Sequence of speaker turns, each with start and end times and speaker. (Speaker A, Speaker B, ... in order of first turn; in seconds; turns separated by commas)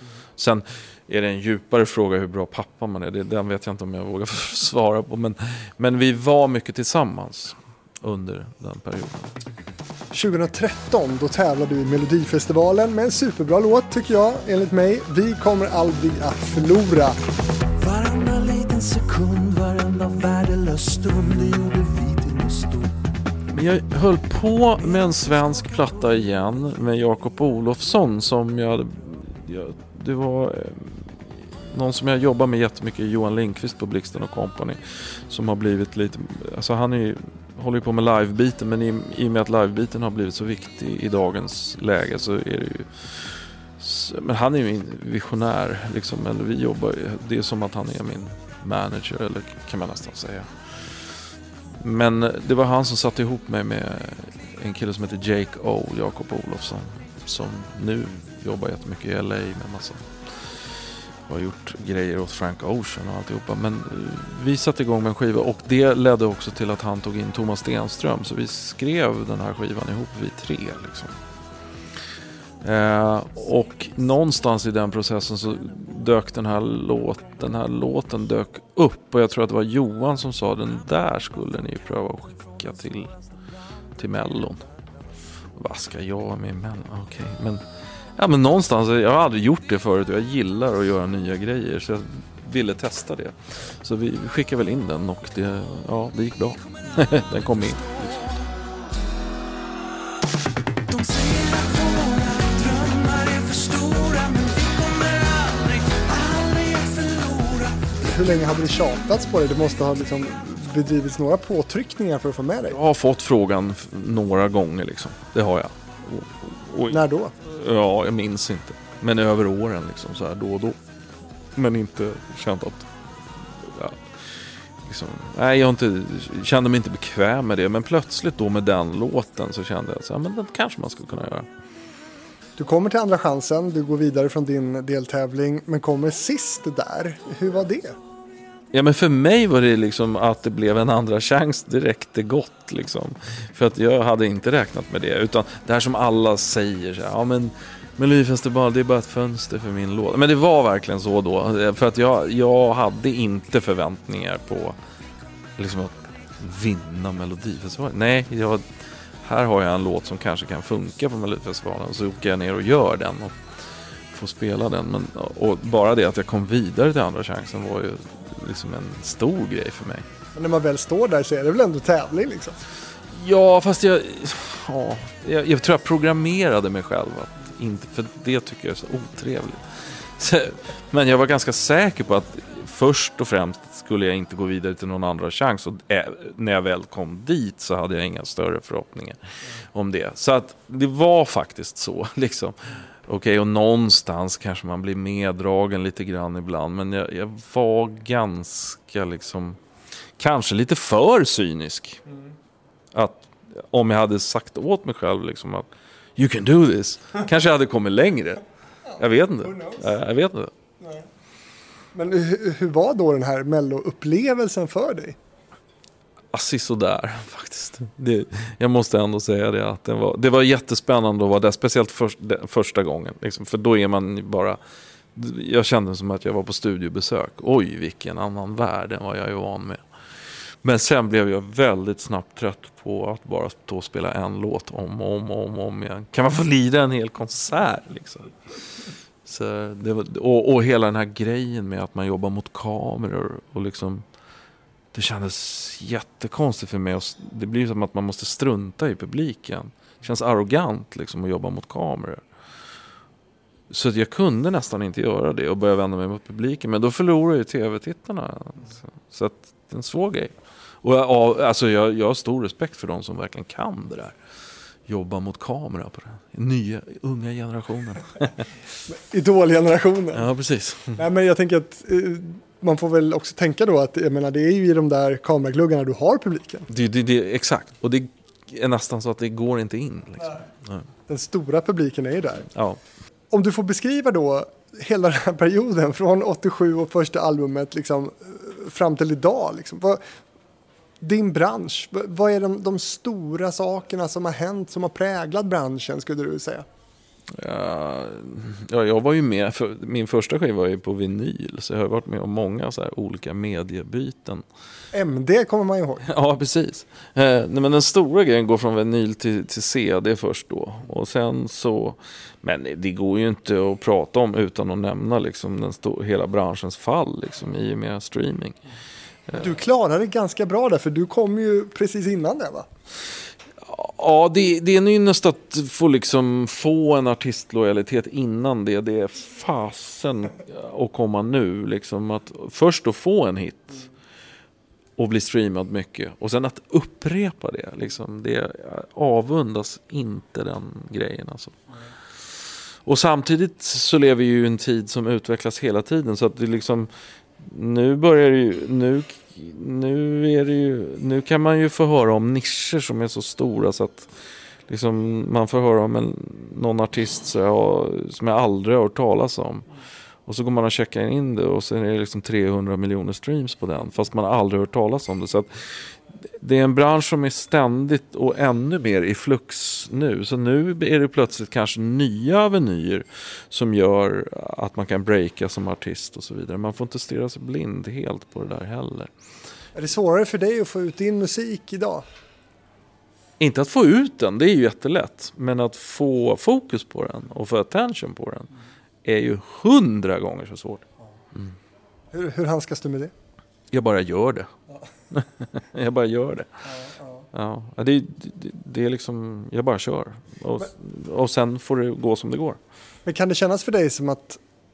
Speaker A: 0.4-9.3, Speaker B: 10.1-17.2, Speaker C: 17.8-22.9, Speaker A: 23.5-50.5, Speaker A: 51.8-60.5, Speaker A: 61.3-71.2, Speaker A: 72.6-83.2, Speaker A: 84.0-84.6, Speaker A: 85.5-87.6, Speaker A: 88.2-98.2, Speaker C: 100.9-108.0, Speaker B: 108.0-112.8, Speaker A: 112.7-120.8, Speaker B: 116.9-117.3, Speaker A: 121.5-122.9, Speaker A: 123.5-124.0, Speaker A: 124.8-131.5, Speaker B: 132.6-138.0, Speaker A: 138.7-154.8, Speaker A: 155.6-158.6, Speaker A: 159.2-163.3, Speaker A: 164.1-170.0, Speaker B: 170.3-172.6, Speaker A: 173.1-189.2, Speaker A: 189.7-199.6, Speaker A: 200.2-202.0, Speaker A: 202.9-208.4, Speaker A: 209.0-210.5, Speaker B: 209.4-209.8, Speaker B: 210.8-211.1, Speaker B: 211.9-215.2, Speaker A: 216.3-224.6, Speaker A: 225.1-229.8, Speaker A: 230.6-238.3, Speaker A: 239.2-244.0, Speaker A: 244.9-252.2, Speaker A: 253.7-264.1, Speaker A: 264.9-268.5, Speaker B: 268.9-270.3, Speaker A: 270.1-271.0, Speaker B: 271.0-276.7, Speaker A: 276.7-280.8, Speaker B: 281.1-282.5, Speaker A: 282.5-282.8, Speaker B: 283.3-290.0, Speaker B: 291.0-296.6, Speaker A: 297.3-304.4, Speaker B: 304.9-306.0, Speaker A: 306.0-318.6, Speaker B: 319.4-322.7, Speaker A: 323.6-333.9, Speaker A: 335.0-341.6, Speaker A: 342.8-354.1, Speaker A: 354.7-359.7, Speaker A: 360.2-365.8, Speaker A: 366.4-379.1, Speaker B: 379.7-382.0, Speaker A: 383.4-388.5, Speaker A: 389.0-390.8, Speaker B: 392.1-393.1, Speaker A: 393.7-394.5, Speaker A: 395.1-396.6, Speaker B: 396.7-397.2, Speaker A: 397.3-402.6, Speaker B: 403.1-404.4